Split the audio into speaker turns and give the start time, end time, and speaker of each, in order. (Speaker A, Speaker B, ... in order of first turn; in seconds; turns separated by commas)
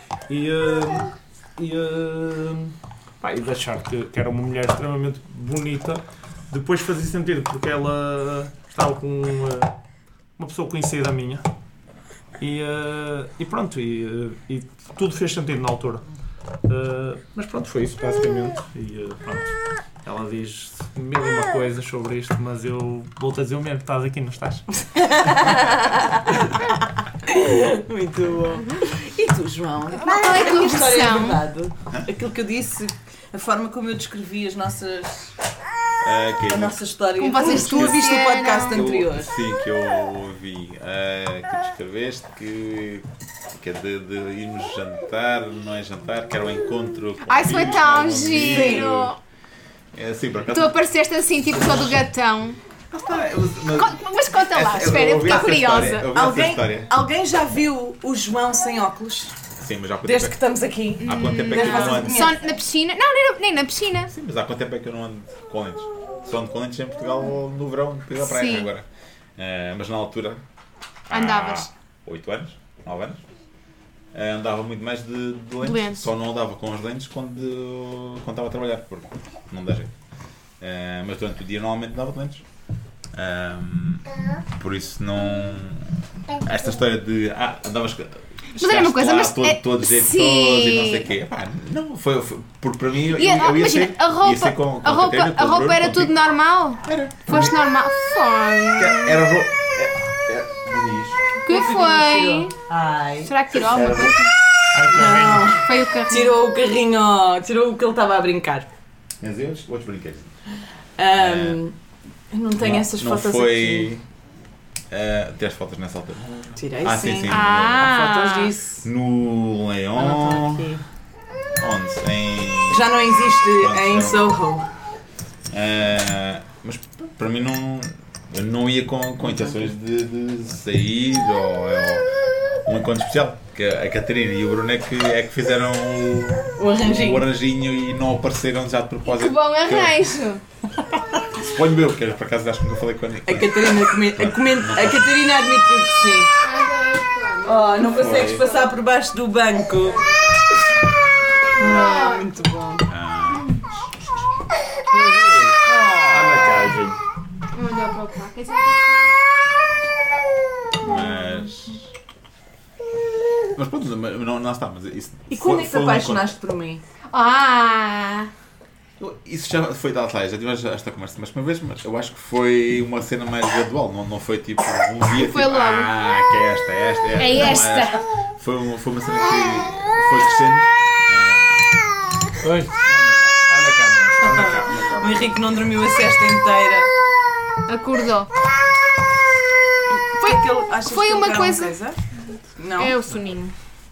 Speaker A: 0.3-9.7, Speaker A: 10.4-11.4, Speaker A: 12.4-16.1, Speaker A: 16.7-25.6, Speaker B: 24.9-35.3, Speaker C: 30.0-31.4, Speaker D: 36.0-36.8, Speaker B: 36.5-39.3, Speaker C: 37.2-38.8, Speaker D: 37.4-38.0, Speaker D: 38.7-49.1, Speaker C: 47.3-49.2, Speaker B: 48.5-48.9, Speaker D: 49.9-50.8, Speaker C: 50.5-52.6, Speaker D: 51.5-52.0, Speaker D: 52.9-56.9, Speaker C: 53.8-56.1, Speaker B: 56.1-59.4, Speaker D: 59.6-60.4, Speaker B: 60.0-62.4, Speaker D: 61.0-62.3, Speaker C: 61.0-64.1, Speaker D: 64.1-70.4, Speaker C: 68.2-68.7, Speaker D: 71.1-73.2, Speaker C: 71.1-71.7, Speaker D: 74.1-79.9, Speaker C: 75.6-76.1, Speaker D: 80.6-82.4, Speaker D: 83.1-96.1, Speaker C: 88.6-91.1, Speaker C: 93.1-99.2, Speaker D: 96.8-97.6, Speaker D: 98.8-101.2, Speaker C: 101.4-102.5, Speaker B: 101.5-103.3, Speaker C: 103.2-104.3, Speaker D: 103.7-104.2, Speaker A: 104.7-105.5, Speaker B: 104.9-108.7, Speaker C: 105.6-106.3, Speaker D: 109.2-110.3, Speaker B: 111.0-111.8, Speaker D: 111.1-111.6, Speaker B: 112.3-113.9, Speaker D: 112.6-114.0, Speaker D: 114.9-118.0, Speaker B: 116.5-118.8, Speaker C: 117.3-118.5, Speaker D: 118.8-120.7, Speaker B: 120.0-120.8, Speaker D: 121.6-124.3, Speaker B: 122.7-124.7, Speaker D: 125.5-132.1, Speaker D: 132.6-140.0, Speaker B: 136.6-137.2, Speaker C: 139.1-140.4, Speaker D: 141.3-145.1, Speaker B: 143.2-146.3, Speaker C: 146.4-148.7, Speaker B: 147.4-150.0, Speaker D: 147.9-148.4, Speaker B: 151.6-152.9, Speaker C: 151.6-152.3, Speaker D: 152.9-153.6, Speaker A: 154.9-157.0, Speaker B: 155.7-156.1, Speaker C: 157.5-159.1, Speaker D: 160.8-161.9, Speaker C: 160.8-161.5, Speaker D: 163.5-166.3, Speaker B: 165.3-166.8, Speaker C: 167.1-168.3, Speaker D: 169.0-181.8, Speaker C: 175.1-175.9, Speaker C: 177.2-178.1, Speaker A: 182.4-185.2, Speaker B: 184.2-186.9, Speaker C: 187.7-188.3, Speaker B: 190.2-192.0, Speaker C: 190.2-191.7, Speaker B: 192.6-192.9, Speaker C: 192.8-193.5